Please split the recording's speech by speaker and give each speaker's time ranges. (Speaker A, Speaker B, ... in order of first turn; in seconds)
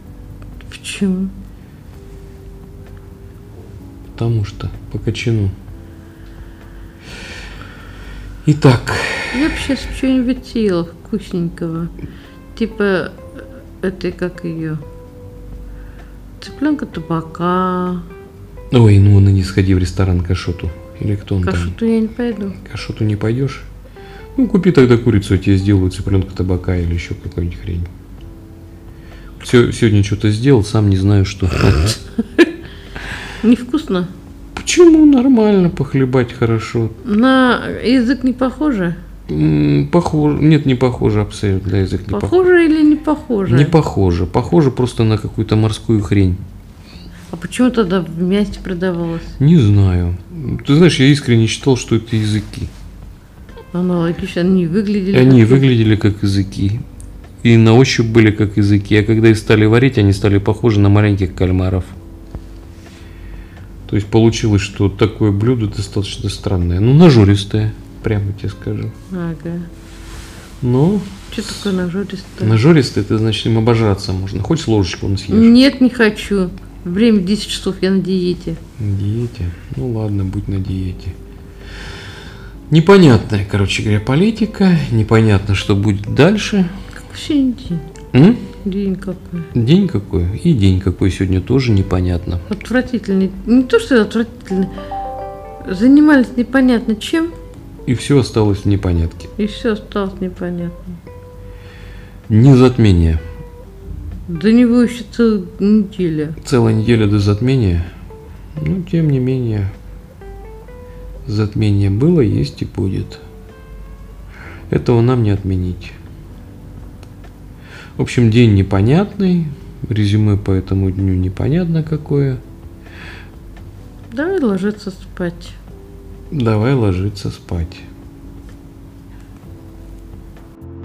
Speaker A: 0.7-1.3, 9.3-11.9, 12.5-14.8, 16.4-18.1, 21.4-22.6, 33.4-34.1, 37.0-39.0, 42.1-43.8, 47.3-49.4, 53.7-55.7, 69.1-69.7, 71.3-72.6, 75.3-78.6, 87.0-87.8, 88.6-89.5, 92.5-94.7, 95.6-97.3, 99.4-101.0, 104.3-106.4, 124.1-125.6
Speaker B: 4.2-5.5, 8.4-9.6, 18.7-21.8, 22.6-23.7, 24.4-27.9, 29.4-32.0, 34.5-36.9, 39.3-42.4, 43.5-46.4, 49.4-52.7, 55.1-56.8, 57.4-62.0, 63.9-68.9, 70.6-71.7, 72.4-75.5, 78.8-81.2, 82.7-86.7, 88.1-88.4, 89.5-92.4, 97.9-99.3, 102.3-103.2, 106.4-107.9, 108.5-109.7, 111.2-113.2, 114.7-116.0, 118.0-122.4, 126.3-127.8